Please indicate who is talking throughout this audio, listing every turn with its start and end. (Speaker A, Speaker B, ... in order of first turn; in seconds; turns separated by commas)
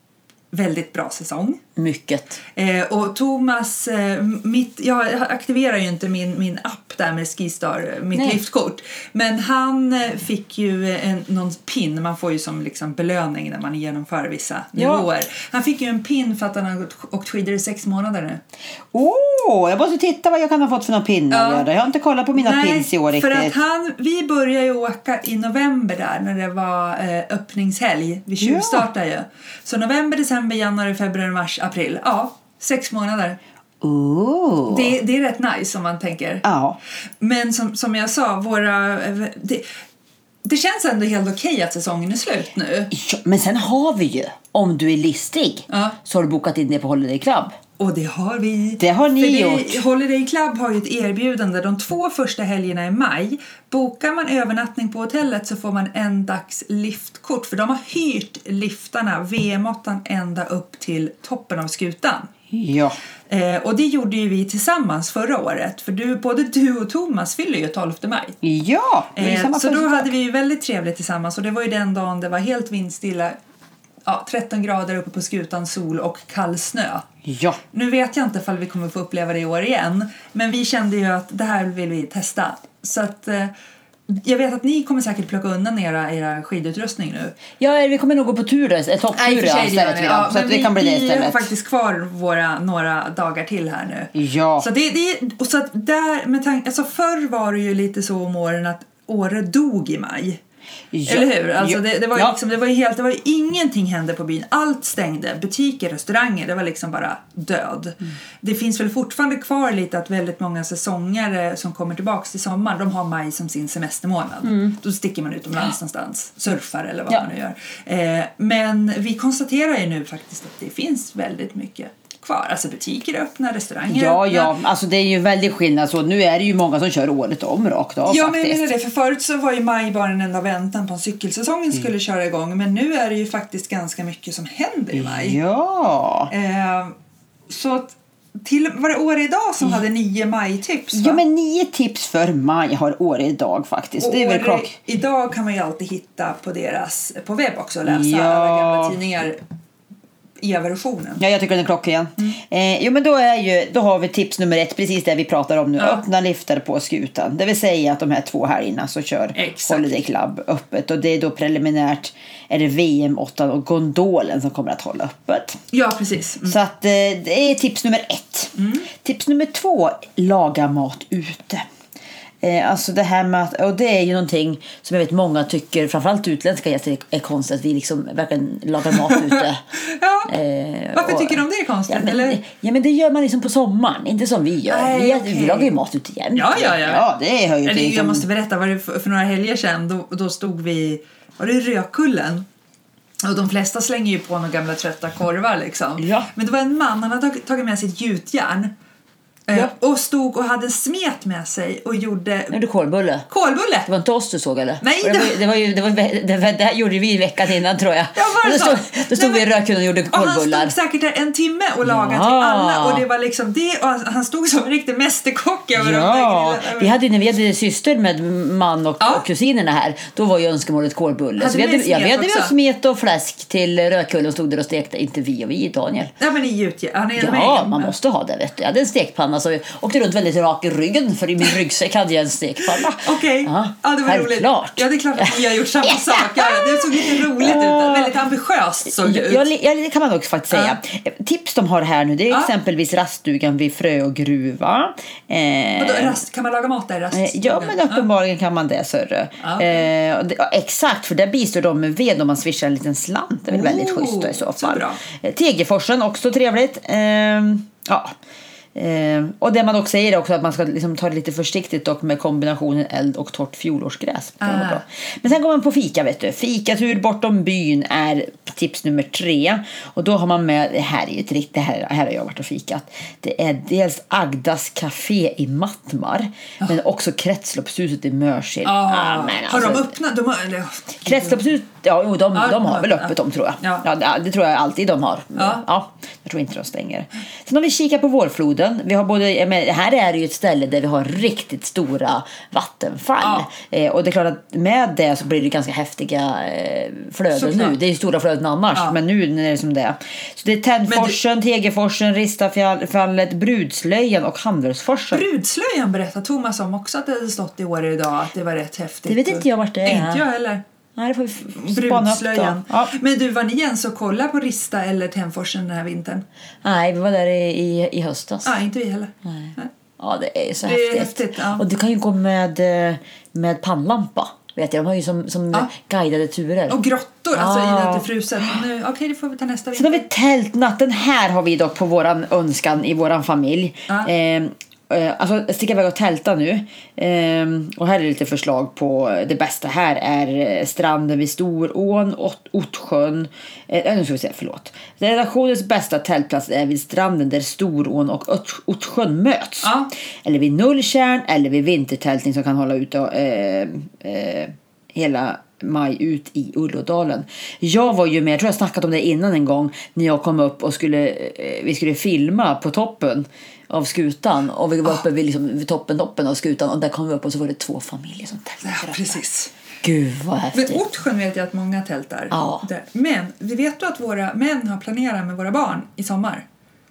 Speaker A: 0.5-1.6, Speaker B: 1.8-2.4, Speaker A: 2.5-18.4, Speaker B: 8.1-8.4, Speaker B: 14.7-15.1, Speaker B: 18.9-23.5, Speaker A: 21.3-21.7, Speaker A: 22.3-33.4, Speaker B: 28.4-28.9, Speaker B: 33.8-35.0, Speaker A: 34.7-36.4, Speaker B: 36.4-36.8, Speaker A: 37.2-39.6, Speaker A: 40.4-42.9, Speaker B: 42.9-47.5, Speaker A: 45.7-46.0, Speaker A: 47.8-62.3, Speaker B: 48.8-49.8, Speaker B: 62.5-63.0, Speaker A: 63.3-68.4, Speaker B: 68.4-70.1, Speaker A: 69.1-73.3, Speaker A: 74.0-77.0, Speaker B: 77.2-77.6, Speaker A: 77.7-83.5, Speaker A: 84.1-87.3, Speaker B: 87.6-91.5, Speaker A: 89.1-100.4, Speaker B: 94.1-94.7, Speaker B: 100.9-102.3, Speaker A: 101.0-124.5, Speaker B: 114.4-114.7, Speaker B: 123.9-128.7, Speaker A: 128.1-135.4, Speaker B: 134.9-136.3, Speaker A: 136.3-136.9, Speaker A: 137.5-141.2, Speaker B: 140.9-144.7, Speaker A: 144.0-149.4, Speaker B: 147.8-149.0, Speaker A: 150.4-151.2, Speaker B: 151.2-165.6, Speaker A: 159.3-160.0, Speaker A: 165.7-166.6, Speaker B: 166.4-171.6, Speaker A: 168.6-168.9, Speaker B: 172.4-179.6, Speaker A: 178.9-180.3, Speaker B: 180.3-188.2, Speaker A: 180.9-182.4, Speaker A: 184.7-185.7, Speaker A: 186.3-187.1, Speaker A: 187.6-192.4, Speaker A: 193.2-198.7, Speaker B: 196.0-196.3, Speaker A: 199.5-202.6, Speaker B: 202.5-203.2, Speaker A: 203.3-203.9, Speaker B: 203.8-210.7, Speaker A: 204.8-205.4, Speaker A: 208.1-209.4, Speaker A: 210.1-216.9, Speaker B: 211.8-213.0, Speaker B: 215.8-226.1, Speaker A: 221.4-222.5, Speaker A: 226.2-227.9, Speaker B: 227.2-238.2, Speaker A: 233.0-239.5, Speaker B: 239.0-246.2, Speaker A: 240.5-240.8, Speaker A: 245.8-248.1, Speaker B: 247.1-258.1, Speaker A: 249.4-249.9, Speaker A: 253.5-255.0, Speaker B: 258.7-279.9, Speaker A: 264.4-264.8, Speaker A: 278.6-281.4, Speaker B: 281.0-305.2, Speaker A: 282.3-283.9, Speaker A: 285.4-285.6, Speaker A: 293.2-293.5, Speaker A: 297.3-297.8, Speaker A: 300.9-301.1, Speaker A: 305.1-310.6, Speaker B: 309.1-310.2, Speaker B: 310.9-312.9, Speaker A: 311.6-316.2, Speaker B: 316.6-318.6, Speaker A: 318.4-319.7, Speaker B: 319.2-326.8, Speaker A: 320.6-321.6, Speaker A: 326.7-330.1, Speaker B: 327.3-328.6, Speaker B: 329.8-349.7, Speaker A: 349.6-349.9, Speaker B: 350.2-369.2, Speaker A: 368.6-369.5, Speaker B: 369.8-370.8, Speaker A: 370.5-376.4, Speaker B: 372.3-372.6